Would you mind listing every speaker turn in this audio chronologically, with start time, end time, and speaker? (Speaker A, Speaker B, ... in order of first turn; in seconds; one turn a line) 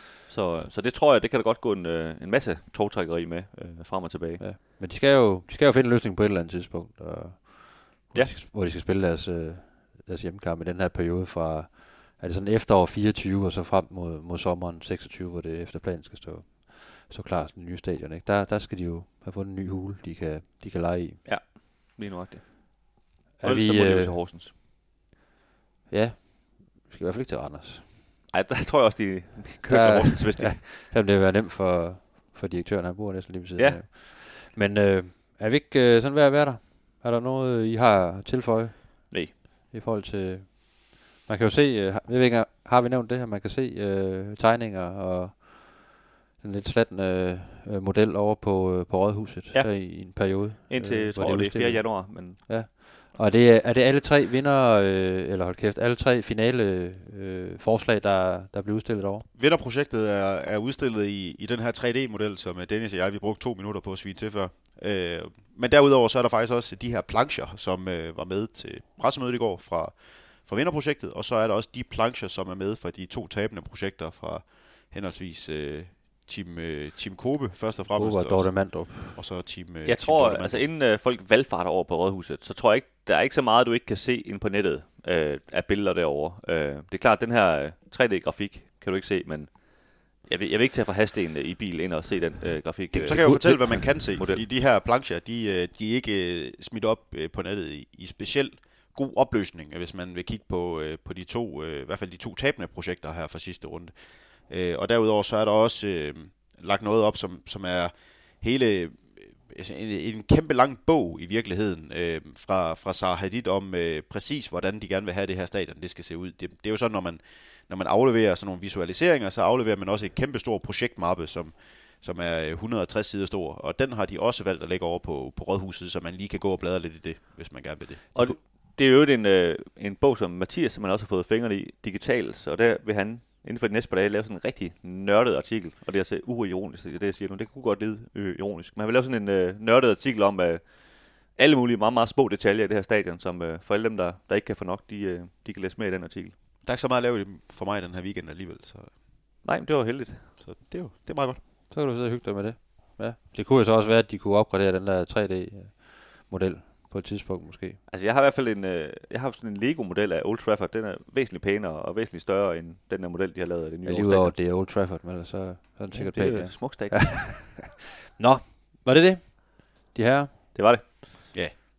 Speaker A: 0.3-4.4
Speaker B: 4.4-21.2
Speaker A: 21.2-24.5
Speaker B: 23.4-24.1
Speaker B: 25.9-27.9
Speaker A: 28.3-30.7
Speaker B: 29.7-59.2
Speaker A: 33.6-33.8
Speaker A: 49.5-52.5
Speaker C: 59.3-80.7
Speaker B: 77.8-79.2
Speaker A: 79.8-94.4
Speaker B: 92.9-94.0
Speaker C: 93.0-128.3
Speaker A: 128.1-146.3
Speaker C: 146.6-148.9
Speaker A: 149.4-150.3
Speaker C: 150.4-151.4
Speaker B: 151.7-157.8
Speaker A: 157.9-164.4
Speaker B: 163.8-167.4
Speaker A: 165.9-167.6
Speaker B: 168.2-170.9
Speaker A: 170.6-170.9